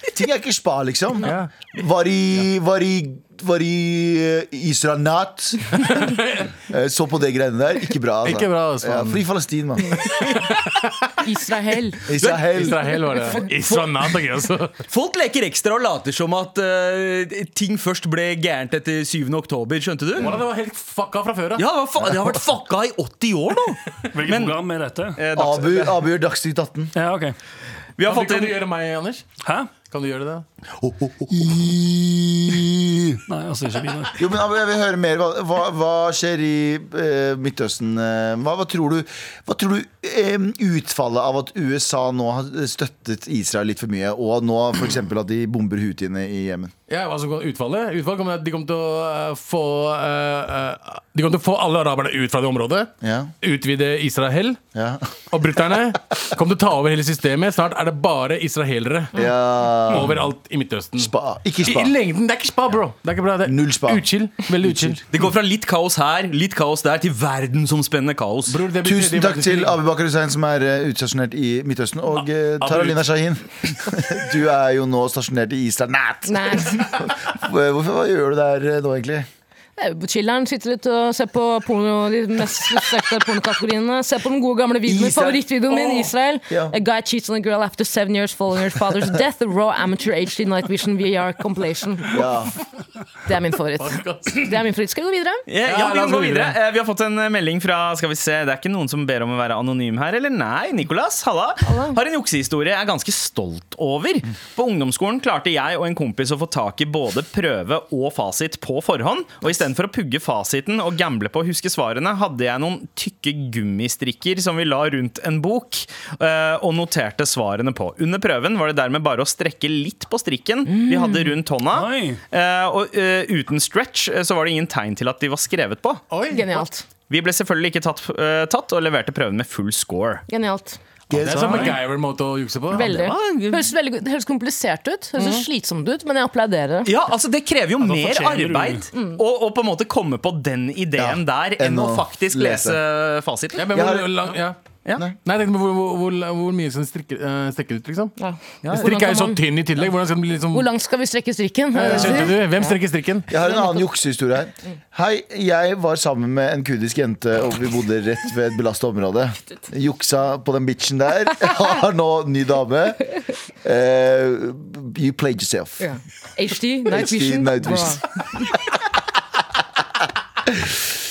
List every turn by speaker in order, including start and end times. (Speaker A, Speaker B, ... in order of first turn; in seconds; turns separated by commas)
Speaker A: 0.1-6.0, Speaker B: 1.2-1.5, Speaker B: 5.8-6.5, Speaker A: 6.7-10.0, Speaker B: 8.2-9.2, Speaker B: 10.0-11.2, Speaker C: 11.2-12.0, Speaker A: 12.1-12.8, Speaker D: 12.2-12.6, Speaker B: 12.3-14.8, Speaker D: 13.4-13.8, Speaker D: 14.9-20.4, Speaker B: 20.2-21.6, Speaker D: 21.6-24.5, Speaker E: 24.1-25.2, Speaker D: 25.1-26.0, Speaker A: 25.3-26.9, Speaker E: 26.9-27.4, Speaker D: 28.0-28.6, Speaker B: 28.0-29.2, Speaker E: 29.4-29.7, Speaker B: 29.8-30.4, Speaker A: 30.8-33.2, Speaker E: 33.3-34.2, Speaker A: 34.2-46.7, Speaker B: 46.9-54.6, Speaker A: 53.0-53.3, Speaker A: 54.7-55.1, Speaker B: 55.3-59.1, Speaker A: 59.1-60.1, Speaker B: 59.9-61.1, Speaker A: 61.0-61.9, Speaker B: 61.6-65.0, Speaker A: 63.4-65.0, Speaker D: 65.1-68.6, Speaker B: 68.5-69.8, Speaker A: 68.8-79.3, Speaker B: 72.6-73.0, Speaker C: 76.3-76.8, Speaker C: 79.8-92.2, Speaker A: 84.8-85.9, Speaker A: 86.5-86.7, Speaker A: 92.1-92.5, Speaker C: 93.2-95.4, Speaker B: 93.8-94.5, Speaker D: 95.5-126.0, Speaker B: 95.7-96.5, Speaker C: 101.6-102.0, Speaker C: 120.7-121.3, Speaker E: 121.7-122.2, Speaker B: 126.1-126.6, Speaker C: 126.3-126.8, Speaker D: 127.1-130.2, Speaker C: 130.3-130.8, Speaker A: 131.1-131.8, Speaker B: 131.2-133.1, Speaker C: 132.7-136.9, Speaker D: 132.8-133.7, Speaker D: 136.8-143.6, Speaker E: 137.8-138.9, Speaker A: 141.0-142.8, Speaker B: 143.6-144.6, Speaker A: 143.7-144.3, Speaker B: 145.2-148.1, Speaker C: 148.2-149.4, Speaker D: 148.6-148.9, Speaker B: 148.7-150.7, Speaker C: 150.5-152.7, Speaker B: 151.8-153.3, Speaker A: 151.8-152.2, Speaker A: 153.3-163.1, Speaker A: 163.6-165.9, Speaker C: 165.8-168.4, Speaker A: 166.8-168.0